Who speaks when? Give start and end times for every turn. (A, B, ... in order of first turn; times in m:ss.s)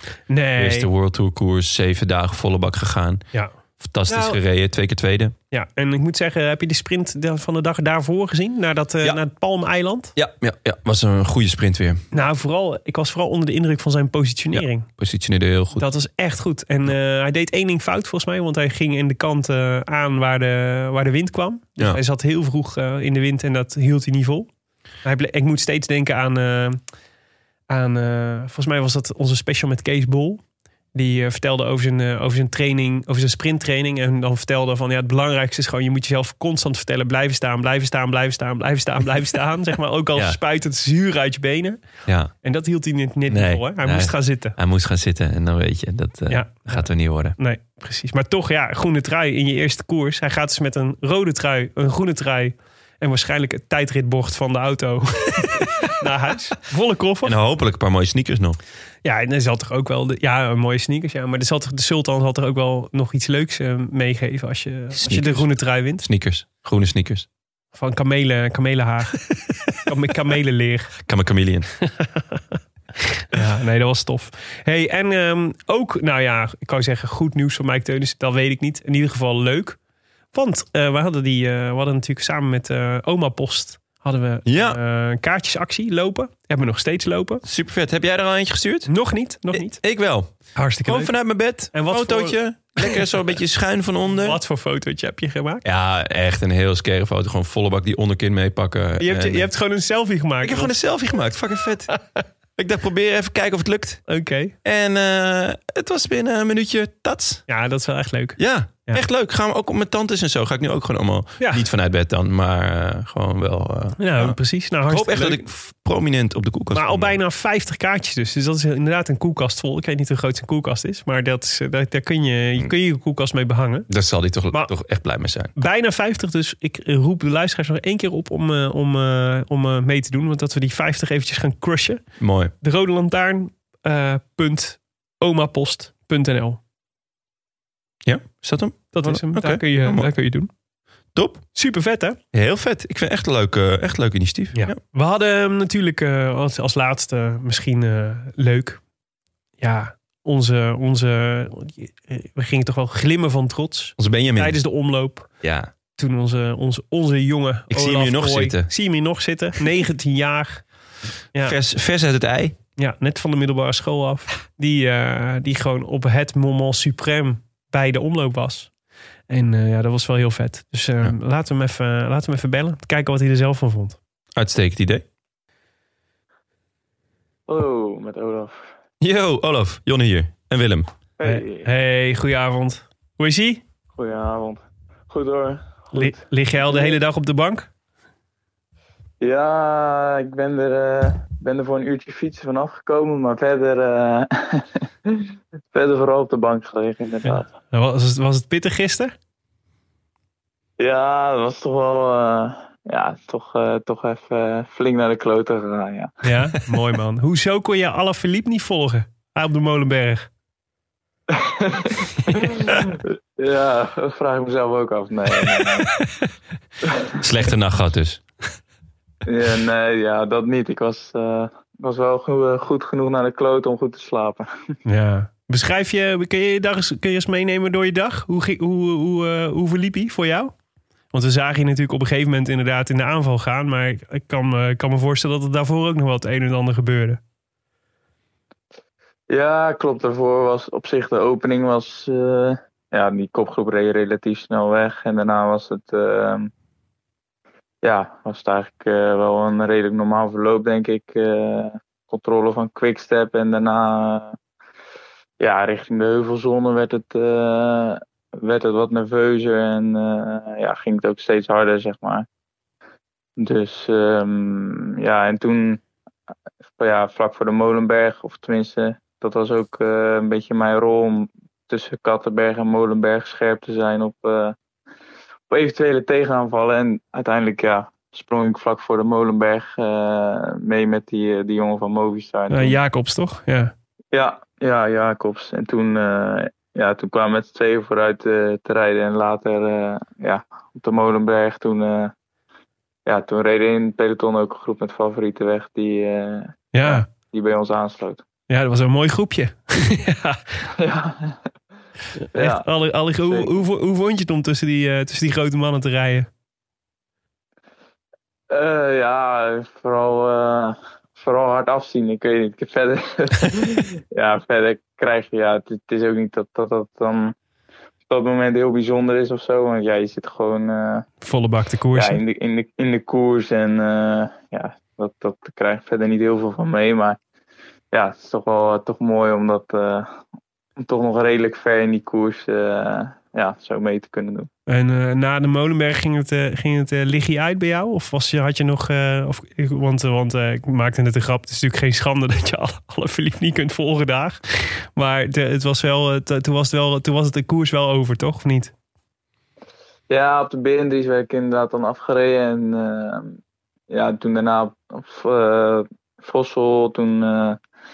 0:00.3-0:00.9 A
0:00.6-0:03.2 B
0:03.8-0:05.4 B
0:04.1-0:04.4 A
0:05.5-0:10.1 A
0:10.2-0:12.0 B
0:12.1-0:14.9 A
0:14.5-0:15.9 B
0:15.8-0:24.5 A
0:25.0-0:26.8 A
0:27.7-0:30.4 A
0:30.9-0:41.8 A
0:42.1-0:42.3 B
0:42.4-0:44.6 A
0:43.3-0:47.4 B
0:46.3-0:57.4 A
0:57.2-0:58.6 B
0:59.0-1:06.0 A
1:04.9-1:07.3 B
1:07.8-1:09.2 A
1:09.8-1:10.9 A
1:11.1-1:11.7 B
1:11.9-1:12.4 A
1:13.0-1:19.8 A
1:20.3-1:27.4 A
1:24.4-1:24.8 B
1:27.4-1:28.9 B
1:28.9-1:29.8 A
1:29.5-1:34.4 B
1:30.6-1:31.1 A
1:31.7-1:33.0 A
1:34.2-1:35.6 A
1:35.6-1:39.5 B
1:39.0-1:40.8 A
1:40.4-1:42.0 B
1:41.9-1:42.2 A
1:42.6-1:44.1 B
1:44.1-1:44.5 A
1:44.6-1:47.5 B
1:47.5-1:49.0 A
1:48.4-1:57.2 B
1:51.4-1:51.6 A
1:54.0-1:55.4 A
1:56.7-2:03.9 A
2:03.9-2:05.5 B
2:05.6-2:12.0 A
2:12.2-2:12.5 B
2:12.6-2:16.6 A
2:18.0-2:20.1 B
2:18.9-2:20.5 A
2:21.2-2:21.4 B
2:21.6-2:22.2 A
2:22.3-2:24.8 B
2:24.6-2:28.8 A
2:29.6-2:35.3 A
2:34.0-2:34.6 B
2:35.4-2:35.7 B
2:36.0-2:40.6 A
2:37.7-2:38.7 B
2:41.4-2:42.6 B
2:42.8-2:48.7 A
2:49.3-2:54.0 A
2:54.4-2:55.0 B
2:57.5-2:58.6 C
2:59.0-3:00.9 B
3:01.2-3:01.7 C
3:01.2-3:03.6 A
3:03.9-3:07.0 C
3:05.9-3:07.7 A
3:09.2-3:15.2 C
3:15.7-3:17.5 C
3:17.2-3:19.1 A
3:20.8-3:26.2 C
3:26.2-3:30.3 A
3:31.3-3:35.9 C
3:37.1-3:38.2 B
3:39.3-3:44.5 C
3:44.9-3:50.5 A
3:51.1-3:57.2 A
3:59.3-4:06.5 C
4:07.8-4:14.4 C
4:15.4-4:22.3 C
4:23.4-4:25.8 C
4:26.8-4:34.6 C
4:35.5-4:42.8 C
4:42.5-4:43.7 A
4:44.1-4:52.1 C
4:53.1-4:58.2 C
4:56.7-4:57.1 A
4:58.5-5:00.6 A
5:00.8-5:01.4 C
5:02.2-5:06.3 A
5:02.3-5:03.6 C
5:08.5-5:17.4 C
5:18.1-5:21.1 C
5:21.2-5:22.2 A
5:21.9-5:27.2 C
5:27.9-5:30.2 C
5:30.8-5:34.5 C
5:34.7-5:44.4 A
5:45.0-5:48.7 A
5:50.1-5:53.4 C
5:53.9-5:57.6 C